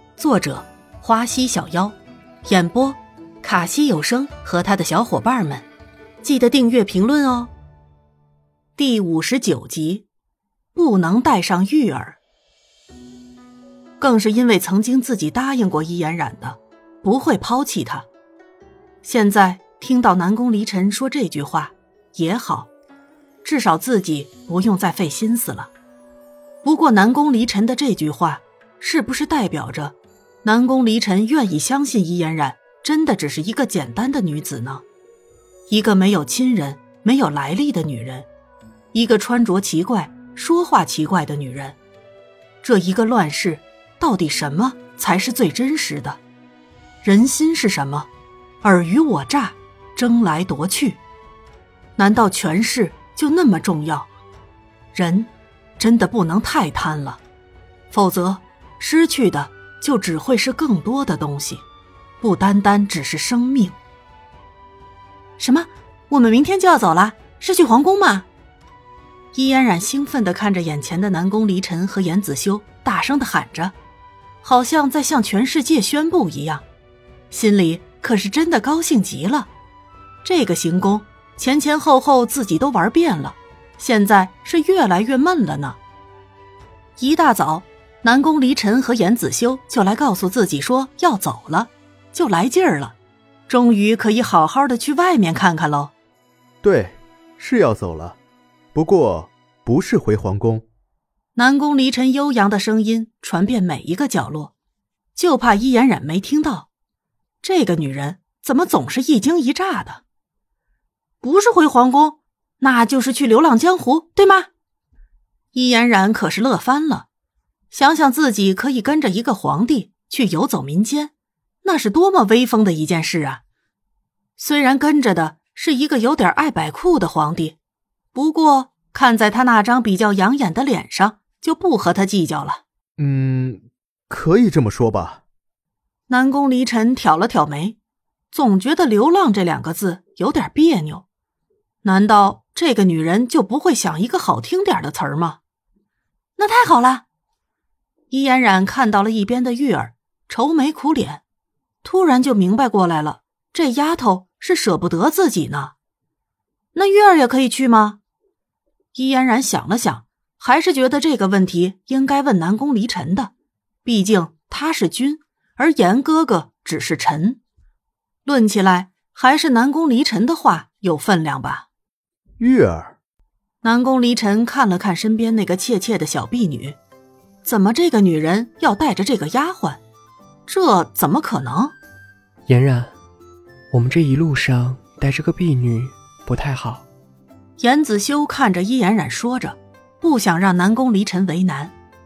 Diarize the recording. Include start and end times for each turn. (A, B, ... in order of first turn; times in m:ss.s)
0:00.2-0:05.7 A
0:06.2-0:07.5 A
0:08.8-0:10.0 A
0:10.7-0:12.2 A
0:14.0-0:18.0 A
0:19.0-0:22.7 A
0:23.4-0:25.7 A
0:26.6-0:34.8 A
0:35.7-0:38.3 A
0:38.9-0:41.8 A
0:42.6-0:46.2 A
0:47.0-0:48.1 A
0:48.6-0:51.0 A
0:52.0-0:54.1 A
0:54.9-0:57.2 A
0:57.9-1:01.6 A
1:02.2-1:03.8 A
1:05.4-1:08.3 A
1:09.3-1:13.7 A
1:14.4-1:16.6 A
1:17.3-1:19.5 A
1:20.2-1:25.8 A
1:27.0-1:33.0 A
1:33.5-1:35.9 A
1:36.6-1:38.2 B
1:38.7-1:40.7 B
1:41.3-1:44.5 A
1:45.1-1:46.7 A
1:47.4-1:50.0 A
1:51.2-1:54.5 A
1:55.5-1:57.1 A
1:57.7-2:03.4 A
2:04.4-2:07.6 A
2:08.1-2:12.6 A
2:13.0-2:15.2 B
2:16.1-2:17.8 A
2:18.3-2:21.1 A
2:21.8-2:25.4 A
2:26.4-2:27.0 A
2:28.1-2:31.2 A
2:31.8-2:35.7 A
2:36.7-2:38.0 A
2:38.9-2:43.3 A
2:43.8-2:47.4 A
2:48.2-2:51.7 A
2:52.4-2:52.9 B
2:53.6-2:56.8 A
2:57.4-2:59.8 A
3:00.5-3:01.7 A
3:02.5-3:02.9 C
3:03.7-3:06.8 C
3:07.6-3:11.7 A